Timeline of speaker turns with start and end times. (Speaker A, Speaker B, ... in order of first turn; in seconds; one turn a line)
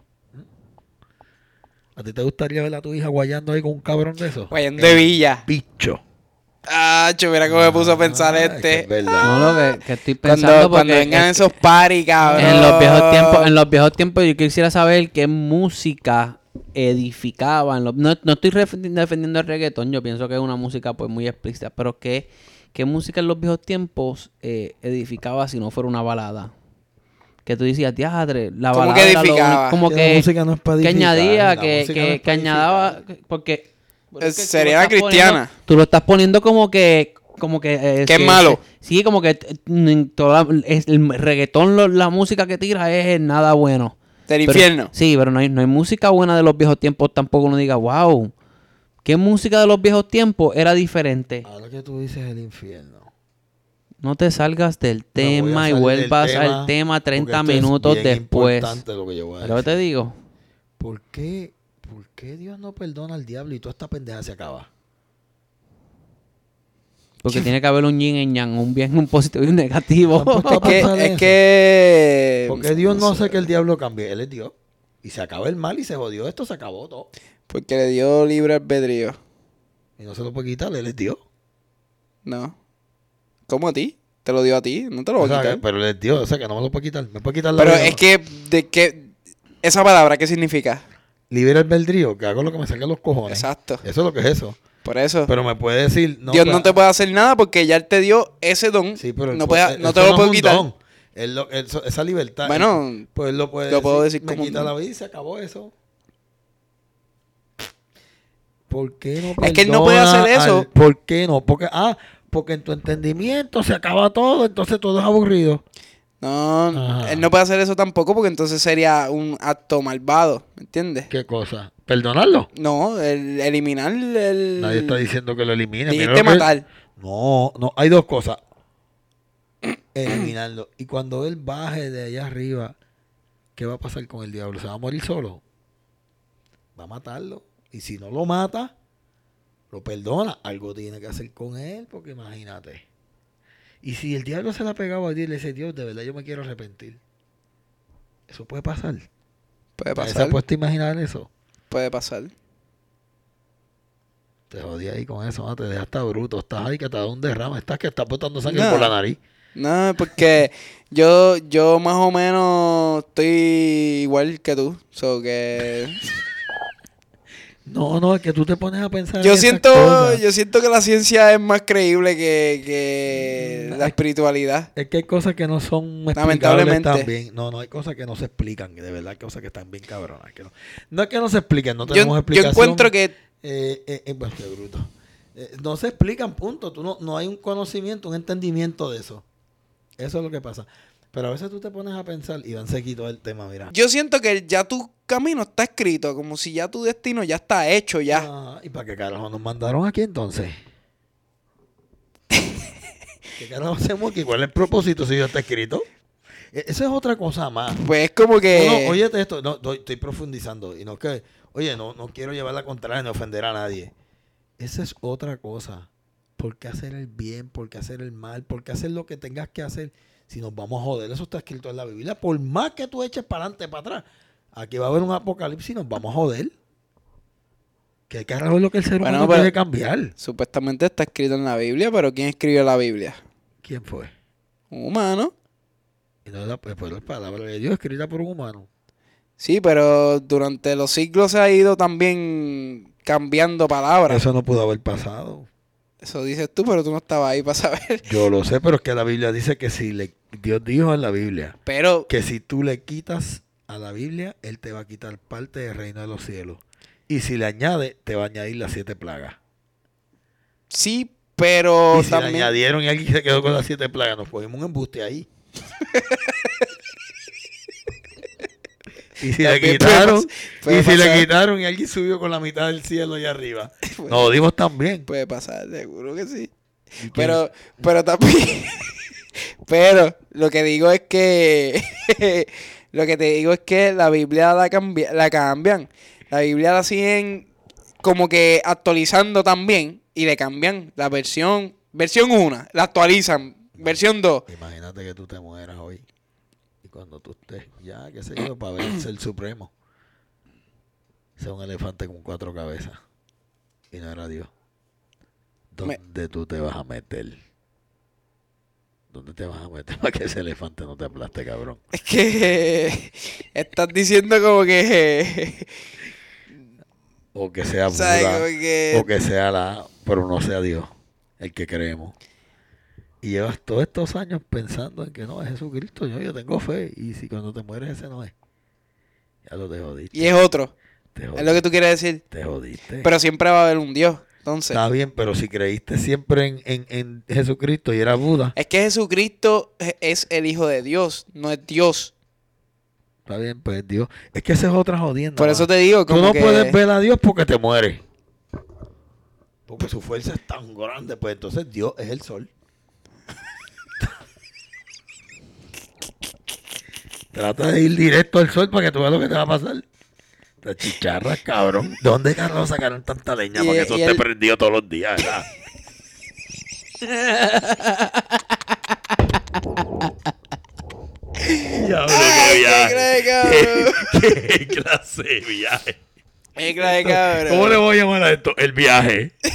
Speaker A: 2.0-6.0
Speaker B: 4.5-5.4
Speaker B: 6.7-13.5
Speaker A: 7.5-9.5
Speaker C: 9.2-11.5
Speaker A: 12.2-12.8
Speaker C: 12.4-26.5
Speaker C: 27.4-30.3
Speaker B: 28.7-29.8
Speaker A: 29.9-33.0
Speaker C: 30.8-48.3
Speaker B: 34.2-35.5
Speaker B: 38.1-38.6
Speaker B: 44.3-44.9
Speaker C: 49.0-51.5
Speaker A: 51.4-53.1
Speaker C: 54.0-58.8
Speaker A: 55.2-59.8
Speaker C: 59.4-60.1
Speaker A: 60.8-64.7
Speaker C: 67.2-70.9
Speaker A: 70.1-71.4
Speaker B: 70.6-73.5
Speaker A: 72.5-77.1
Speaker B: 77.5-79.2
Speaker A: 80.0-81.2
Speaker B: 82.2-82.5
Speaker B: 83.5-85.6
Speaker A: 85.2-88.0
Speaker B: 87.6-89.1
Speaker B: 89.6-90.8
Speaker A: 91.3-94.6
Speaker B: 93.3-93.8
Speaker B: 94.8-95.3
Speaker A: 95.3-96.8
Speaker B: 96.3-100.7
Speaker A: 99.0-105.7
Speaker B: 102.5-103.1
Speaker B: 103.7-104.7
Speaker A: 108.7-115.6
Speaker B: 109.4-110.7
Speaker B: 116.2-121.1
Speaker A: 116.7-117.3
Speaker A: 121.1-122.5
Speaker B: 122.5-125.0
Speaker A: 124.6-128.4
Speaker B: 125.9-126.7
Speaker A: 129.9-132.8
Speaker A: 133.6-135.4
Speaker A: 136.8-138.7
Speaker A: 139.7-142.8
Speaker A: 143.8-147.0
Speaker A: 148.3-149.1
Speaker B: 149.8-150.4
Speaker A: 149.9-151.3
Speaker B: 151.7-152.3
Speaker A: 154.5-159.2
Speaker B: 158.4-158.9
Speaker B: 159.6-166.0
Speaker A: 167.7-170.2
Speaker B: 169.2-174.7
Speaker A: 173.4-173.9
Speaker A: 174.8-189.2
Speaker B: 176.2-177.1
Speaker B: 181.9-183.1
Speaker A: 190.0-193.7
Speaker B: 193.7-198.3
Speaker A: 198.1-200.6
Speaker A: 203.4-205.9
Speaker A: 206.5-207.8
Speaker B: 207.8-209.0
Speaker A: 208.5-213.9
Speaker A: 214.6-226.5
Speaker A: 228.1-230.1
Speaker B: 229.0-229.5
Speaker B: 230.2-233.2
Speaker A: 233.6-234.1
Speaker B: 234.7-235.3
Speaker A: 236.2-238.7
Speaker B: 239.4-244.2
Speaker A: 244.1-245.5
Speaker B: 246.0-248.1
Speaker A: 248.0-251.6
Speaker B: 251.7-252.1
Speaker A: 252.1-259.4
Speaker B: 260.7-262.5
Speaker A: 261.9-265.3
Speaker B: 265.9-266.5
Speaker A: 269.2-275.1
Speaker B: 269.4-271.3
Speaker B: 273.9-274.3
Speaker B: 275.1-276.5
Speaker A: 277.0-277.4
Speaker B: 277.1-279.1
Speaker B: 279.7-287.5
Speaker B: 288.0-294.4
Speaker A: 293.8-296.1
Speaker A: 296.8-299.7
Speaker A: 301.4-303.0
Speaker A: 303.9-304.5
Speaker A: 305.7-307.4
Speaker A: 309.1-311.8
Speaker B: 311.9-315.7
Speaker A: 317.3-322.1
Speaker B: 317.9-319.1
Speaker A: 323.2-328.3
Speaker A: 329.4-330.3
Speaker B: 330.1-330.7
Speaker A: 331.1-331.6
Speaker B: 331.4-332.2
Speaker A: 332.3-333.1
Speaker B: 333.0-334.8
Speaker A: 334.7-338.6
Speaker B: 338.6-342.1
Speaker A: 343.3-348.0
Speaker B: 345.4-346.8
Speaker A: 349.7-352.5
Speaker A: 357.3-359.9
Speaker A: 360.6-365.5
Speaker B: 363.6-364.2
Speaker C: 367.0-368.6
Speaker C: 369.8-370.1
Speaker B: 371.5-374.1
Speaker A: 371.6-376.0
Speaker B: 376.6-377.8
Speaker A: 376.8-379.3